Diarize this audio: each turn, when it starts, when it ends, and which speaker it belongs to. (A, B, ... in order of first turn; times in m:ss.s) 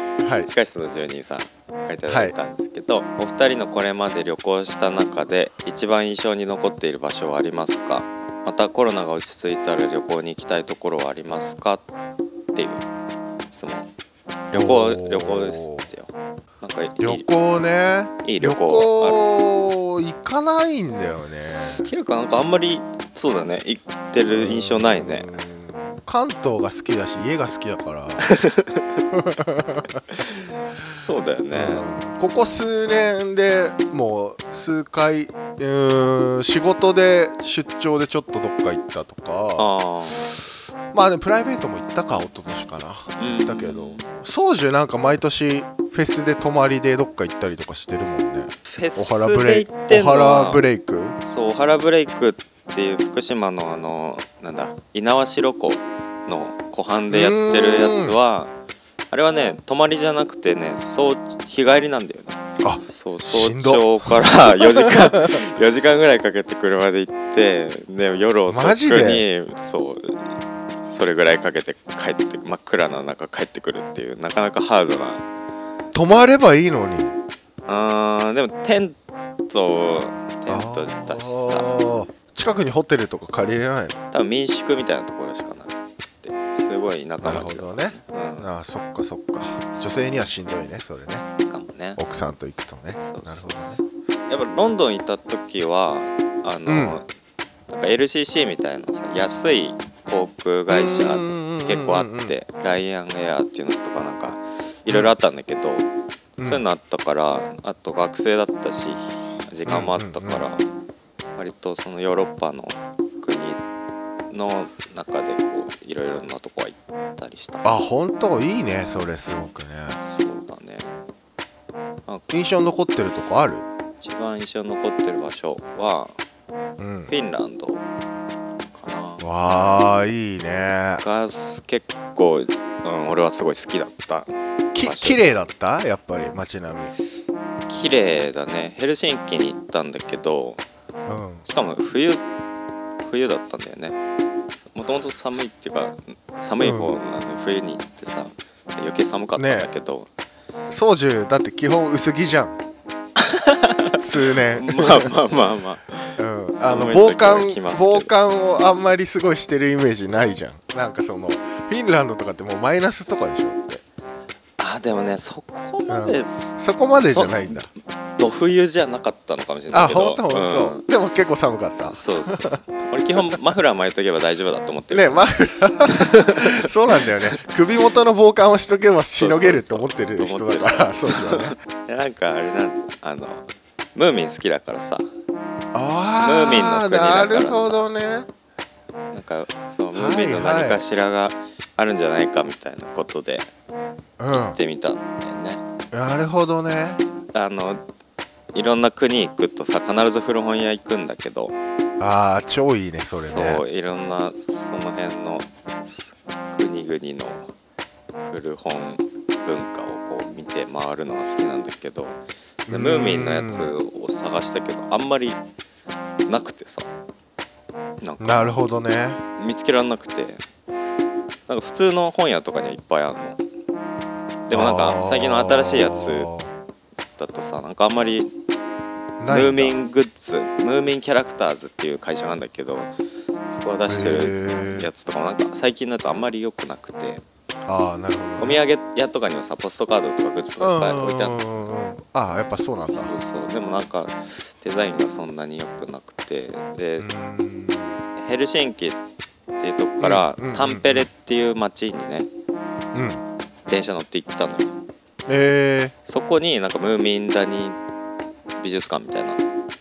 0:00.2-0:00.5 A
0:00.4-0:11.8 B
0:02.1-0:02.4 A
0:12.5-0:12.8 B
0:13.5-0:13.9 B
0:14.5-0:15.9 A
0:14.5-0:17.3 B
0:17.0-0:21.9 A
0:18.2-0:19.2 B
0:21.8-0:25.3 B
0:24.3-0:28.3 A
0:28.2-0:29.0 B
0:29.1-0:30.0 A
0:30.2-0:31.9 B
0:31.5-0:39.7 A
0:39.6-0:40.4 B
0:40.9-0:51.2 A
0:43.2-0:44.1 B
0:48.7-0:50.6 B
0:51.2-0:58.5 B
0:57.1-0:58.2 A
0:59.1-1:02.4 B
1:02.6-1:05.4 A
1:02.9-1:10.3 B
1:08.5-1:09.2 A
1:10.9-1:15.3 B
1:15.9-1:17.2 A
1:17.7-1:19.0 B
1:19.5-1:21.7 B
1:20.5-1:24.0 A
1:24.1-1:28.5 B
1:27.2-1:31.2 A
1:31.5-1:32.0 B
1:32.0-1:33.8 A
1:33.0-1:33.6 B
1:34.3-1:37.1 B
1:36.7-1:37.0 A
1:37.7-1:45.9 B
1:40.7-1:42.4 A
1:46.4-1:46.6 A
1:46.4-1:50.7 B
1:49.7-1:50.4 A
1:51.4-1:53.6 B
1:54.3-1:57.7 B
1:57.6-2:00.0 A
2:00.0-2:00.9 B
2:02.3-2:03.7 A
2:04.0-2:06.2 B
2:06.8-2:07.1 A
2:07.1-2:07.8 B
2:08.8-2:09.2 B
2:09.2-2:11.0 A
2:11.0-2:15.2 B
2:14.7-2:16.9 A
2:17.7-2:20.6 B
2:21.1-2:21.5 A
2:21.5-2:22.2 B
2:23.0-2:24.0 B
2:24.7-2:30.1 B
2:26.6-2:27.0 A
2:29.4-2:29.7 A
2:30.7-2:32.6 A
2:33.2-2:38.1 B
2:34.0-2:35.2 A
2:36.2-2:43.8 A
2:44.6-2:46.5 B
2:45.9-2:47.7 A
2:47.1-2:47.6 B
2:48.2-2:50.8 B
2:49.7-2:52.6 A
2:51.9-2:55.3 B
2:54.9-3:01.6 A
2:55.8-2:57.3 B
2:59.2-3:05.1 B
3:05.7-3:08.3 A
3:06.2-3:07.8 B
3:09.1-3:13.5 B
3:09.9-3:10.9 A
3:14.2-3:14.6 A
3:14.3-3:15.6 B
3:15.9-3:17.0 A
3:17.3-3:17.8 B
3:18.5-3:21.6 B
3:22.0-3:23.6 A
3:23.2-3:25.5 B
3:26.5-3:27.5 B
3:28.3-3:35.4 B
3:32.7-3:33.7 A
3:36.3-3:36.9 B
3:38.0-3:38.7 B
3:38.2-3:39.2 A
3:39.4-3:40.4 B
3:41.5-3:43.4 B
3:44.5-3:46.3 B
3:44.5-3:46.5 A
3:47.2-3:48.3 B
3:49.2-3:49.8 A
3:49.3-3:52.9 B
3:53.5-3:57.2 B
3:53.9-3:54.9 A
3:57.7-3:58.6 A
3:58.4-4:01.4 B
4:00.6-4:03.1 A
4:02.9-4:07.1 B
4:07.0-4:08.0 A
4:08.2-4:09.0 B
4:09.6-4:12.3 B
4:10.0-4:11.1 A
4:12.9-4:13.2 A
4:13.7-4:14.7 B
4:15.3-4:16.0 A
4:16.1-4:17.8 B
4:18.6-4:19.4 B